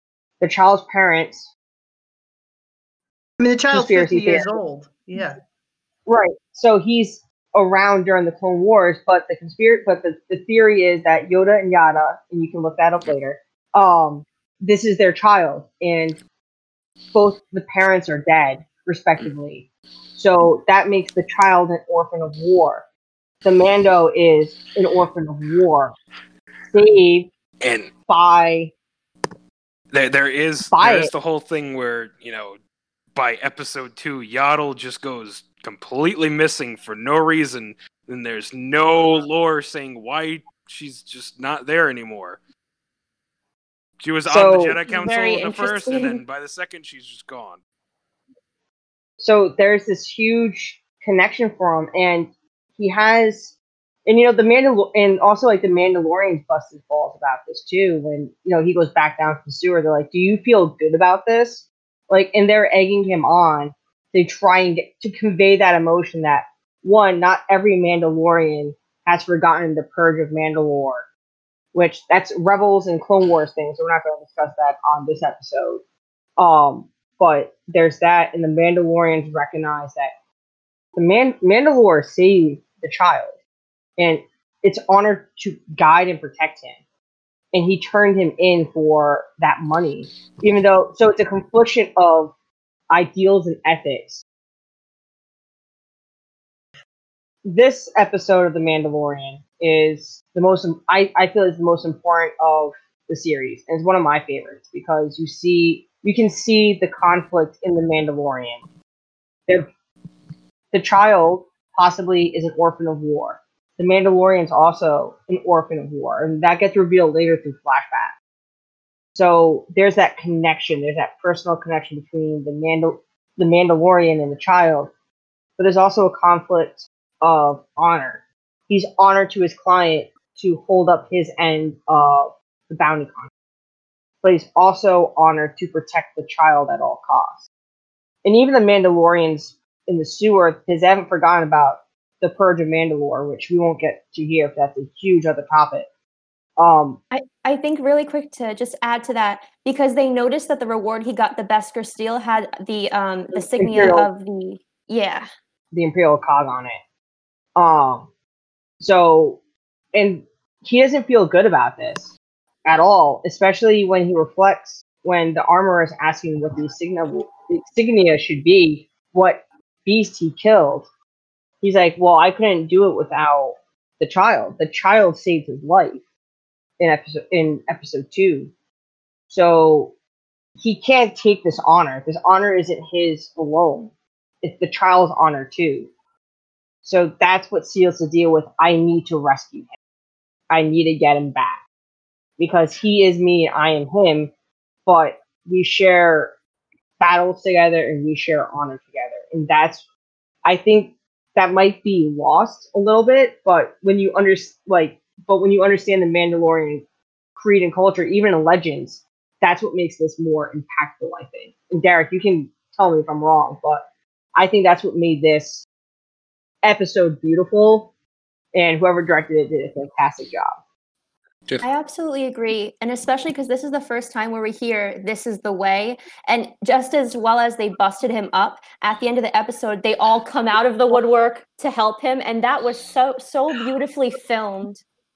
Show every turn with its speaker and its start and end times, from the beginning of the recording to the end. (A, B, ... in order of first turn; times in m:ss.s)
0:00.4-0:01.5 A
0:03.4-0:05.4 B
0:03.7-0:04.6 A
0:06.1-0:16.2 A
0:17.1-0:22.9 A
0:23.4-0:26.0 A
0:26.7-0:27.3 A
0:27.6-0:27.9 C
0:28.1-0:28.7 A
0:29.9-0:32.6 C
0:30.7-0:31.1 A
0:33.1-0:42.4 C
0:44.0-0:47.6 C
0:44.3-0:44.8 A
0:44.9-0:46.2 D
0:49.2-0:53.6 A
0:54.0-1:11.0 A
1:11.7-1:15.8 A
1:16.4-1:20.1 A
1:21.0-1:23.3 A
1:24.0-1:26.8 A
1:27.5-1:32.3 A
1:32.9-1:34.2 A
1:37.4-1:48.6 A
1:50.7-1:58.1 A
1:59.1-2:04.9 A
2:05.6-2:13.3 A
2:14.2-2:17.5 A
2:18.2-2:25.9 A
2:26.6-2:27.0 A
2:27.1-2:35.3 D
2:33.3-2:34.1 A
2:35.7-2:36.8 A
2:37.6-2:38.1 A
2:38.8-2:39.4 A
2:39.9-2:42.1 A
2:42.6-2:50.9 A
2:51.6-2:56.0 A
2:56.8-2:58.5 A
2:59.3-2:59.9 A
3:00.6-3:05.9 A
3:06.8-3:09.7 A
3:10.5-3:11.6 A
3:12.4-3:14.3 A
3:14.9-3:16.3 A
3:17.0-3:19.8 A
3:20.4-3:26.8 A
3:27.4-3:35.7 A
3:36.6-3:37.9 A
3:38.5-3:40.5 A
3:41.6-3:54.8 D